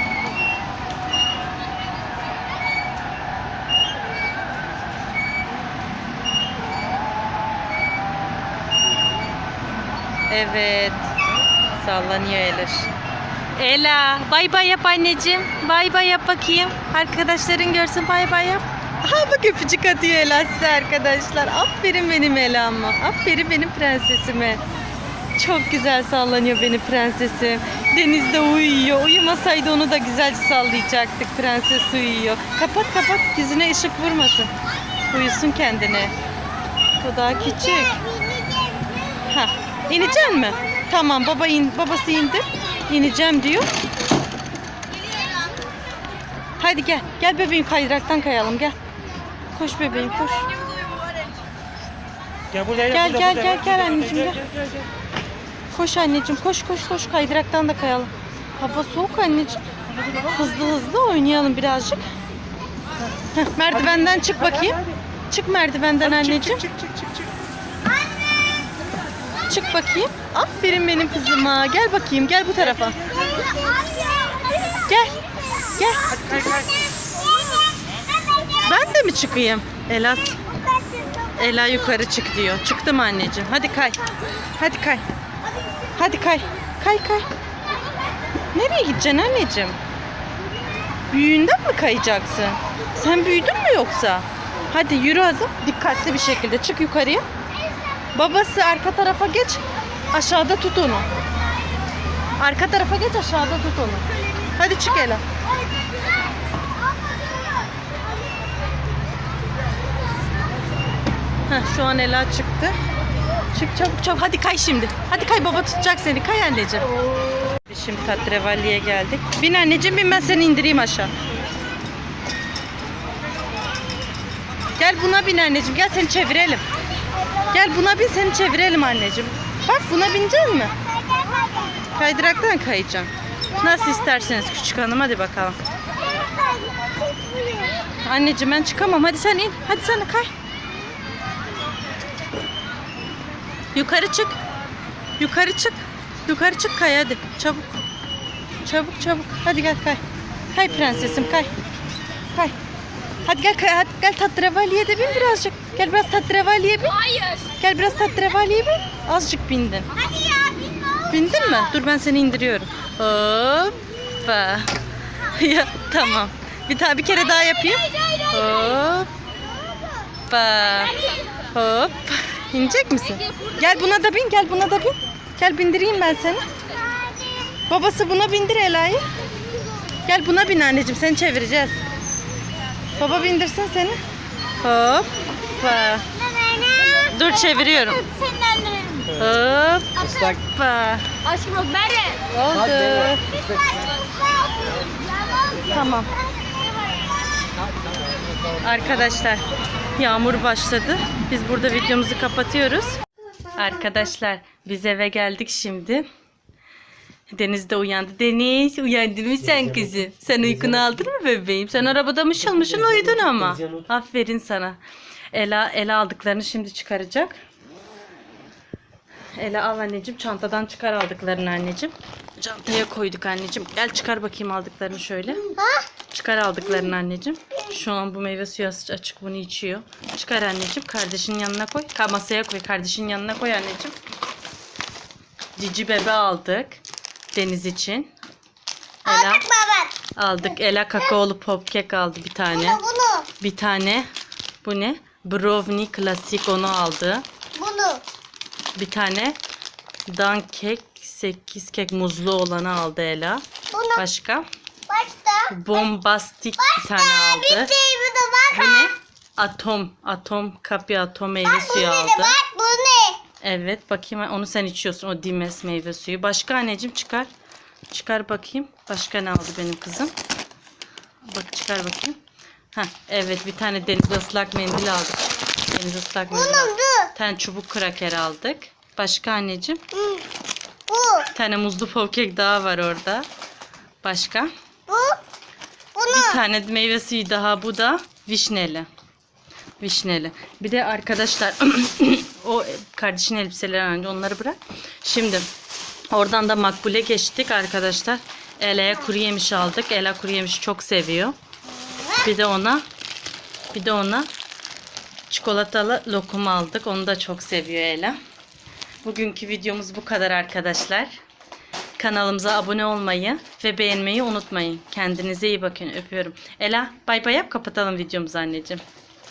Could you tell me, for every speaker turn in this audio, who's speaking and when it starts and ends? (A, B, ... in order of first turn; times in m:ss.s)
0:10.3-0:11.1 A
0:11.8-0:12.9 A
0:13.5-0:24.6 A
0:25.4-0:34.5 A
0:35.1-0:36.1 A
0:37.0-0:38.0 A
0:38.3-0:38.7 B
0:39.3-0:43.7 A
0:46.6-0:48.8 A
0:49.5-0:50.5 A
0:52.5-0:54.8 C
0:52.9-0:54.4 A
0:55.7-0:59.6 A
1:00.3-1:02.0 A
1:03.3-1:04.8 A
1:03.7-1:05.0 C
1:05.3-1:06.7 A
1:06.0-1:07.3 C
1:09.4-1:13.0 A
1:12.8-1:13.6 C
1:13.4-1:14.8 B
1:14.8-1:15.2 A
1:15.7-1:16.2 A
1:16.1-1:16.7 C
1:17.4-1:18.6 B
1:18.6-1:20.4 A
1:20.7-1:21.3 B
1:21.3-1:24.0 A
1:24.6-1:25.0 A
1:26.0-1:27.3 A
1:28.5-1:29.8 A
1:31.1-1:37.2 A
1:38.1-1:41.1 A
1:42.4-1:45.2 A
1:51.5-1:52.8 A
1:53.5-1:56.9 A
1:57.7-2:01.1 A
2:04.8-2:06.6 A
2:07.5-2:10.7 A
2:10.9-2:11.8 B
2:11.9-2:15.6 A
2:16.1-2:17.8 B
2:18.0-2:20.3 A
2:23.7-2:24.4 A
2:25.2-2:27.7 A
2:28.6-2:30.0 A
2:30.5-2:31.5 A
2:33.2-2:37.0 A
2:37.6-2:39.9 A
2:40.0-2:41.0 B
2:41.0-2:49.1 A
2:50.3-2:56.5 A
2:57.7-2:59.0 A
3:00.0-3:01.8 A
3:03.0-3:04.0 A
3:04.6-3:06.0 A
3:06.4-3:07.0 B
3:07.0-3:08.1 A
3:08.1-3:09.1 B
3:09.1-3:11.2 A
3:11.3-3:12.2 B
3:12.3-3:13.2 A
3:15.6-3:16.1 A
3:18.6-3:19.4 A
3:20.0-3:23.0 A
3:23.5-3:26.0 A
3:27.3-3:34.8 A
3:29.5-3:30.9 C
3:32.5-3:33.9 C
3:35.3-3:37.4 A
3:39.4-3:45.5 A
3:46.1-3:53.9 A
3:55.6-3:56.8 A
3:57.3-3:58.1 A
3:59.0-3:59.5 A
3:59.4-3:59.9 B
4:00.1-4:02.8 A
4:02.8-4:03.3 B
4:03.4-4:04.1 A
4:04.6-4:07.2 A
4:07.6-4:08.0 B
4:08.8-4:09.4 A
4:10.1-4:14.4 A
4:14.9-4:15.5 B
4:15.5-4:17.8 A
4:17.6-4:18.6 B
4:18.5-4:22.4 A
4:21.9-4:23.2 B
4:23.4-4:27.3 A
4:27.9-4:30.1 A
4:31.3-4:32.2 A
4:32.7-4:39.8 A
4:36.6-4:37.1 B
4:40.9-4:41.3 B
4:41.2-4:43.3 A
4:44.0-4:44.5 A
4:44.9-4:45.2 B
4:46.1-4:48.9 A
4:49.8-4:55.5 A
4:56.1-5:01.4 A
5:02.2-5:02.8 A
5:03.7-5:04.3 A
5:05.3-5:08.2 A
5:09.0-5:11.2 A
5:12.0-5:18.8 A